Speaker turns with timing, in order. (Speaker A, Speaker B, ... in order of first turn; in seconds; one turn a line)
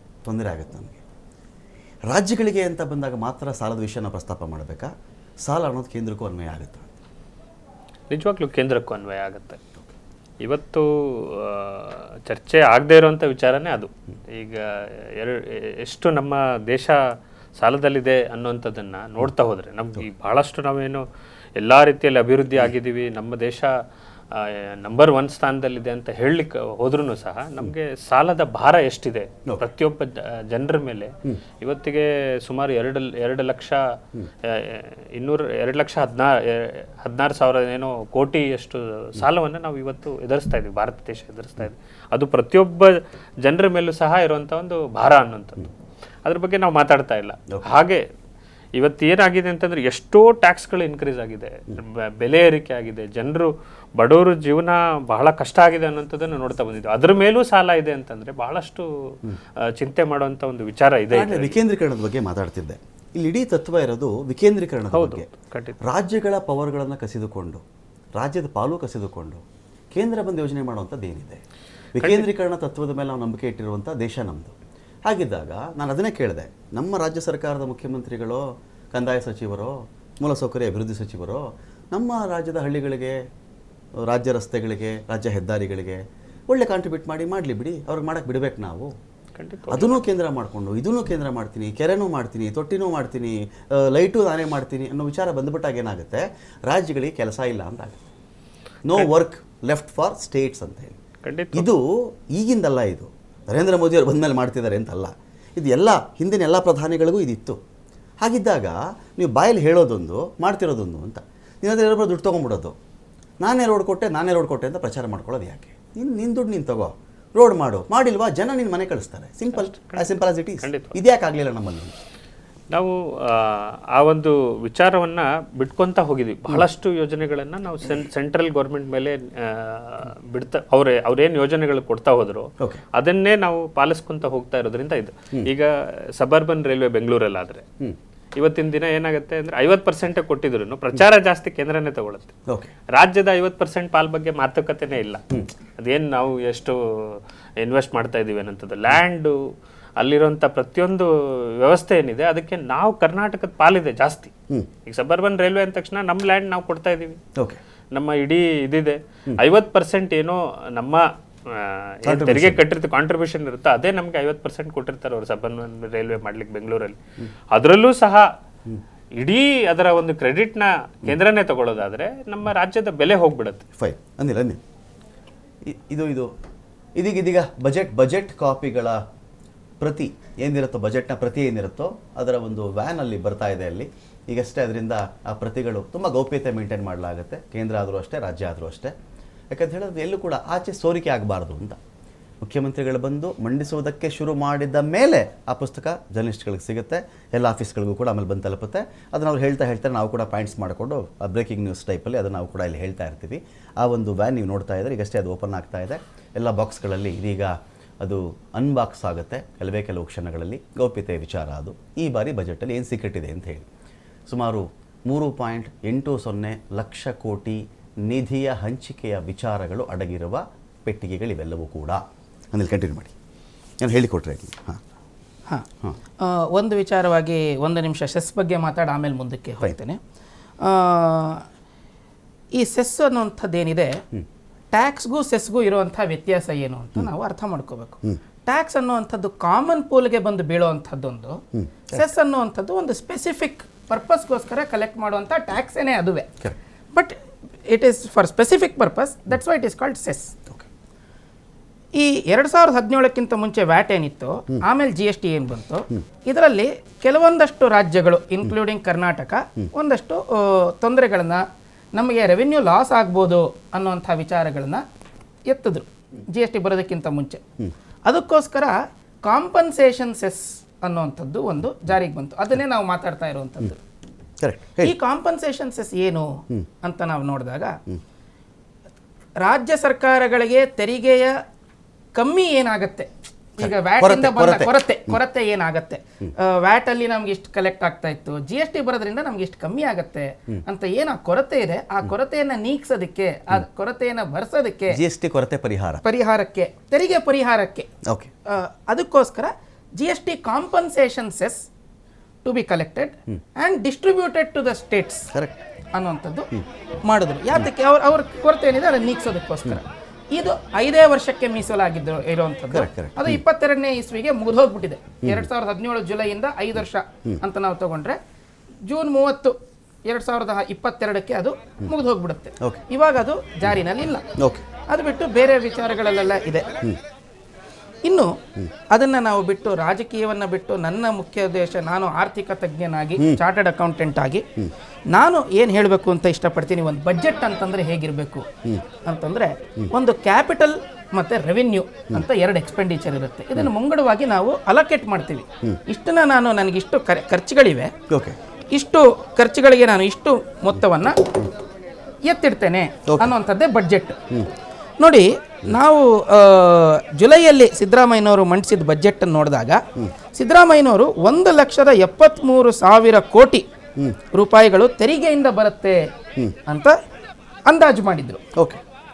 Speaker A: 0.2-1.0
Speaker A: 2.1-4.9
Speaker A: 5.5-6.9
Speaker B: 8.1-9.6
Speaker B: 10.4-17.0
Speaker B: 17.6-21.0
Speaker B: 21.6-23.7
Speaker B: 24.3-33.8
Speaker B: 34.4-45.7
Speaker B: 46.2-48.0
Speaker B: 48.8-59.1
Speaker B: 59.7-61.6
Speaker A: 61.1-65.3
Speaker B: 64.9-65.8
Speaker A: 65.8-67.6
Speaker A: 68.2-69.4
Speaker A: 69.9-71.4
Speaker A: 72.0-74.5
Speaker A: 75.1-83.2
Speaker A: 84.0-88.9
Speaker B: 89.4-90.0
Speaker A: 89.7-98.1
Speaker A: 98.9-101.0
Speaker B: 101.2-101.7
Speaker A: 101.5-107.6
Speaker A: 108.2-112.8
Speaker A: 113.4-121.9
Speaker B: 120.6-120.9
Speaker B: 122.7-137.6
Speaker B: 138.4-142.3
Speaker B: 142.9-145.2
Speaker B: 145.8-149.4
Speaker B: 150.0-154.3
Speaker B: 154.9-157.2
Speaker B: 157.9-167.0
Speaker A: 162.1-162.6
Speaker B: 167.5-168.3
Speaker B: 169.2-173.6
Speaker A: 173.8-174.6
Speaker A: 175.7-176.3
Speaker A: 177.0-179.0
Speaker A: 179.8-188.9
Speaker A: 189.5-191.8
Speaker A: 192.4-213.7
Speaker A: 214.3-223.1
Speaker A: 223.8-224.8
Speaker C: 226.2-230.0
Speaker C: 230.7-231.5
Speaker C: 232.6-234.0
Speaker C: 234.7-241.4
Speaker A: 241.6-242.0
Speaker C: 241.9-246.3
Speaker C: 247.7-250.4
Speaker C: 252.0-264.9
Speaker C: 265.5-267.4
Speaker C: 268.1-268.7
Speaker C: 269.3-273.8
Speaker A: 274.4-275.0
Speaker C: 274.9-277.8
Speaker C: 279.4-281.4
Speaker C: 282.1-295.0
Speaker A: 283.6-285.2
Speaker A: 294.9-296.0
Speaker C: 296.0-297.9
Speaker A: 298.1-298.3
Speaker C: 298.5-301.7
Speaker C: 302.4-305.3
Speaker A: 305.3-305.6
Speaker C: 306.0-306.5
Speaker C: 307.1-309.8
Speaker C: 310.3-318.2
Speaker A: 312.7-313.4
Speaker A: 315.2-315.5
Speaker C: 318.9-324.3
Speaker A: 324.4-324.6
Speaker C: 324.9-326.7
Speaker C: 328.0-334.5
Speaker C: 335.1-338.5
Speaker C: 339.0-347.9
Speaker A: 348.1-348.4
Speaker C: 348.7-351.4
Speaker C: 352.2-354.2
Speaker A: 353.1-353.3
Speaker C: 355.0-359.8
Speaker C: 360.3-363.7
Speaker C: 364.3-366.1
Speaker C: 366.7-367.0
Speaker C: 367.7-368.4
Speaker A: 368.6-368.8